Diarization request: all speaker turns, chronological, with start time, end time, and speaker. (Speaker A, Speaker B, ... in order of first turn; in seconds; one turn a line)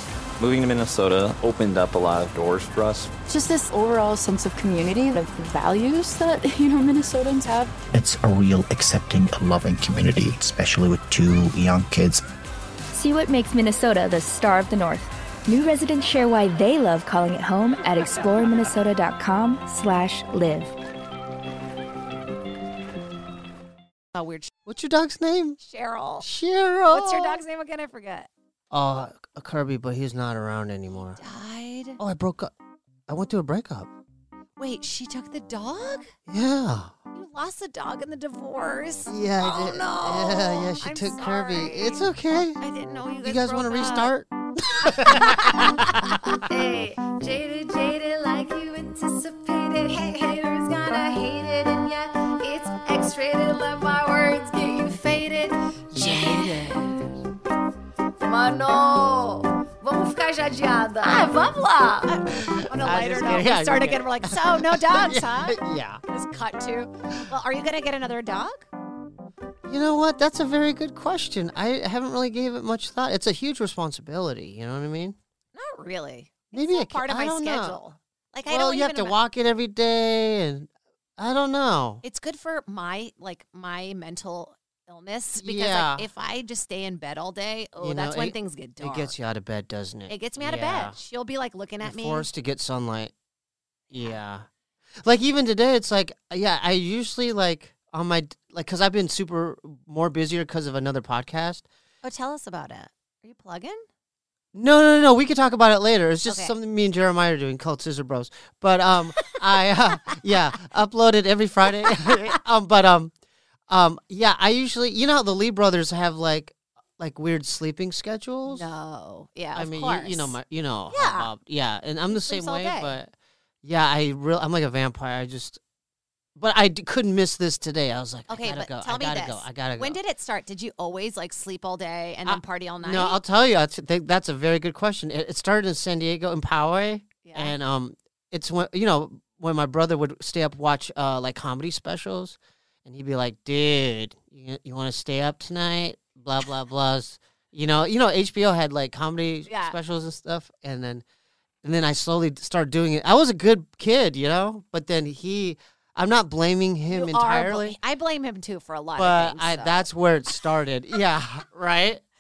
Speaker A: 0.4-3.1
Speaker B: 3.3-7.7
Speaker C: 7.9-12.2
Speaker D: 12.9-20.8
Speaker E: 24.1-24.5
Speaker F: 24.7-25.6
Speaker E: 25.6-26.3
Speaker F: 26.2-27.4
Speaker E: 26.9-28.3
Speaker F: 28.7-31.2
Speaker E: 31.2-32.0
Speaker F: 32.0-32.5
Speaker F: 33.1-33.9
Speaker E: 34.6-36.1
Speaker F: 36.3-37.0
Speaker E: 37.1-42.1
Speaker F: 39.1-42.6
Speaker E: 42.6-44.1
Speaker F: 43.2-46.4
Speaker E: 44.8-57.1
Speaker F: 55.9-56.9
Speaker E: 58.2-68.7
Speaker F: 62.3-66.0
Speaker F: 69.7-75.2
Speaker E: 75.5-79.2
Speaker F: 76.5-77.8
Speaker F: 78.5-82.0
Speaker E: 82.0-89.1
Speaker F: 85.4-86.1
Speaker F: 87.8-91.0
Speaker E: 90.1-92.3
Speaker F: 91.8-93.1
Speaker F: 93.9-94.5
Speaker F: 95.0-101.7
Speaker E: 102.0-103.8
Speaker F: 104.5-113.1
Speaker E: 106.3-106.5
Speaker E: 111.8-112.3
Speaker F: 113.7-118.7
Speaker E: 118.5-120.4
Speaker F: 119.5-125.6
Speaker E: 120.9-121.3
Speaker E: 122.1-123.0
Speaker F: 126.4-130.0
Speaker E: 128.3-133.2
Speaker F: 132.3-151.0
Speaker E: 137.2-137.6
Speaker E: 149.5-149.8
Speaker F: 151.6-157.8
Speaker E: 156.9-159.9
Speaker F: 159.0-162.0